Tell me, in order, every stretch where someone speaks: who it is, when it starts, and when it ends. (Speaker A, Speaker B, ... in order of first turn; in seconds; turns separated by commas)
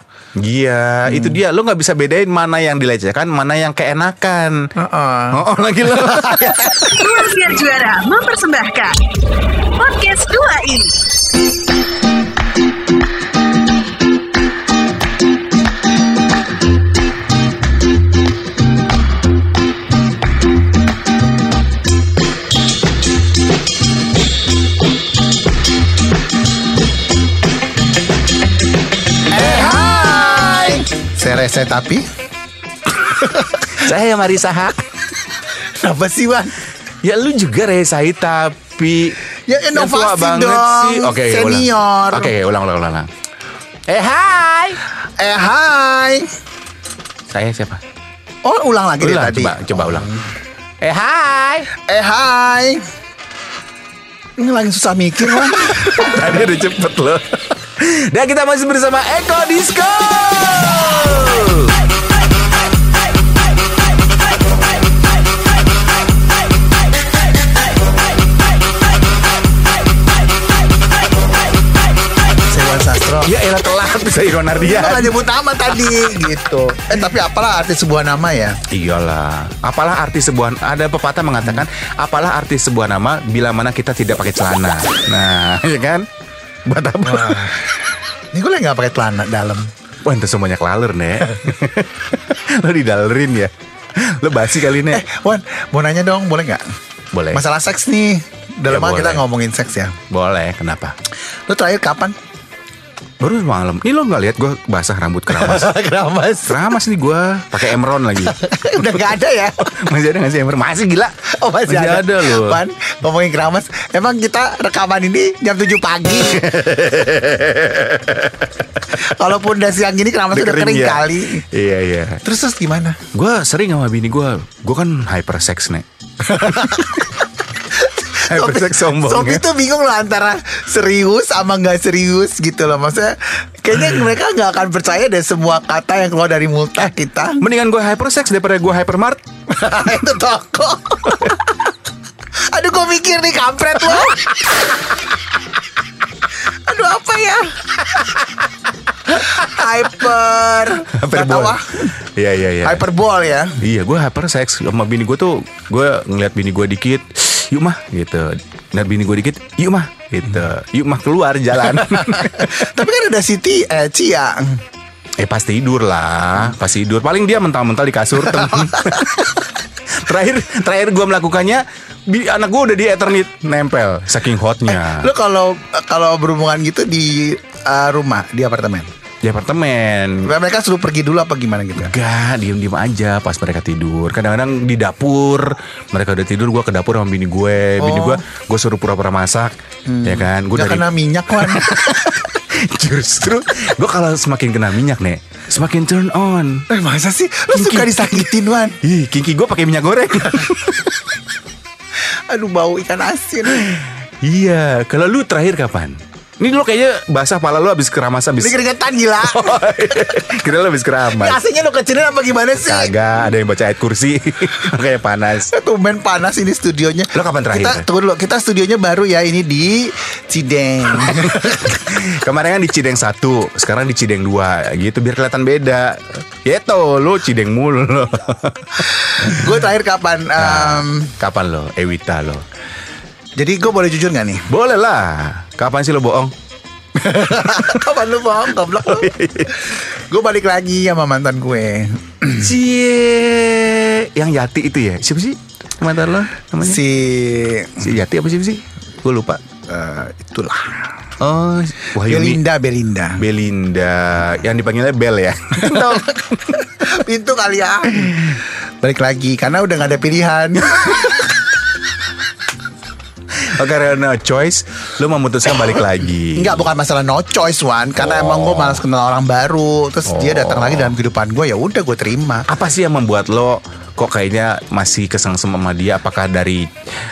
Speaker A: 0.4-4.6, Speaker B: 1.1-1.4, Speaker B: 4.8-5.4, Speaker A: 5.3-6.9, Speaker B: 6.0-6.9, Speaker C: 6.8-11.0, Speaker B: 29.3-32.1, Speaker A: 29.3-30.8, Speaker B: 33.0-33.8, Speaker A: 33.7-34.9, Speaker B: 35.7-36.6, Speaker A: 37.0-39.2, Speaker B: 39.5-42.3, Speaker A: 39.7-43.1, Speaker A: 43.9-44.8, Speaker B: 45.2-46.3, Speaker A: 47.3-47.8, Speaker B: 48.4-50.2, Speaker A: 49.0-50.1, Speaker A: 50.8-51.7, Speaker B: 51.8-52.8, Speaker B: 54.4-56.0, Speaker A: 55.3-61.8, Speaker B: 72.5-73.3, Speaker A: 73.2-75.2, Speaker B: 74.5-78.6, Speaker A: 78.7-86.1, Speaker A: 86.7-87.6, Speaker B: 87.0-87.7, Speaker B: 88.3-89.7, Speaker A: 90.0-95.0, Speaker B: 94.9-96.6, Speaker A: 97.1-97.4, Speaker B: 97.3-100.0, Speaker A: 98.7-99.2, Speaker A: 100.1-101.0, Speaker B: 101.5-102.2, Speaker A: 103.2-105.7, Speaker B: 105.3-106.7, Speaker A: 106.5-111.2, Speaker B: 108.2-109.7, Speaker B: 111.3-116.5, Speaker A: 111.7-112.6, Speaker A: 116.2-119.1, Speaker B: 119.0-121.5, Speaker A: 120.3-122.2, Speaker B: 122.2-123.0, Speaker A: 123.1-125.8, Speaker B: 126.2-127.2, Speaker A: 126.4-127.1, Speaker B: 127.8-137.4, Speaker A: 128.2-129.4, Speaker A: 137.4-139.2, Speaker B: 139.5-141.5, Speaker B: 142.5-144.2, Speaker B: 146.5-147.6, Speaker B: 149.1-151.9, Speaker A: 150.9-152.8, Speaker B: 152.6-153.6, Speaker A: 153.6-162.7, Speaker B: 162.0-164.6, Speaker A: 165.2-175.1, Speaker B: 168.3-169.2, Speaker B: 174.7-178.9, Speaker A: 179.2-180.2, Speaker B: 180.3-181.9, Speaker A: 181.8-189.5, Speaker B: 187.8-188.2, Speaker B: 189.9-191.7, Speaker A: 190.0-196.7, Speaker B: 196.7-198.8, Speaker A: 197.5-201.1, Speaker B: 202.3-203.7, Speaker A: 203.4-208.6, Speaker B: 208.4-210.2, Speaker A: 209.2-211.4, Speaker B: 211.1-212.9, Speaker A: 212.7-215.5, Speaker B: 215.5-221.6, Speaker A: 217.1-217.9, Speaker A: 221.0-229.7, Speaker B: 228.9-231.2, Speaker A: 230.4-232.4, Speaker B: 233.4-234.5, Speaker A: 234.5-236.3, Speaker B: 236.9-242.5, Speaker A: 238.7-239.7, Speaker A: 242.4-246.8, Speaker B: 246.6-247.9, Speaker A: 247.8-249.4, Speaker B: 249.7-251.0, Speaker A: 251.2-252.4, Speaker B: 252.0-253.2, Speaker A: 253.2-256.8, Speaker B: 256.7-261.3, Speaker A: 258.0-258.4, Speaker A: 260.8-261.2, Speaker A: 263.3-266.7, Speaker B: 266.4-272.5, Speaker A: 268.0-268.8, Speaker A: 270.1-271.0, Speaker A: 272.5-276.7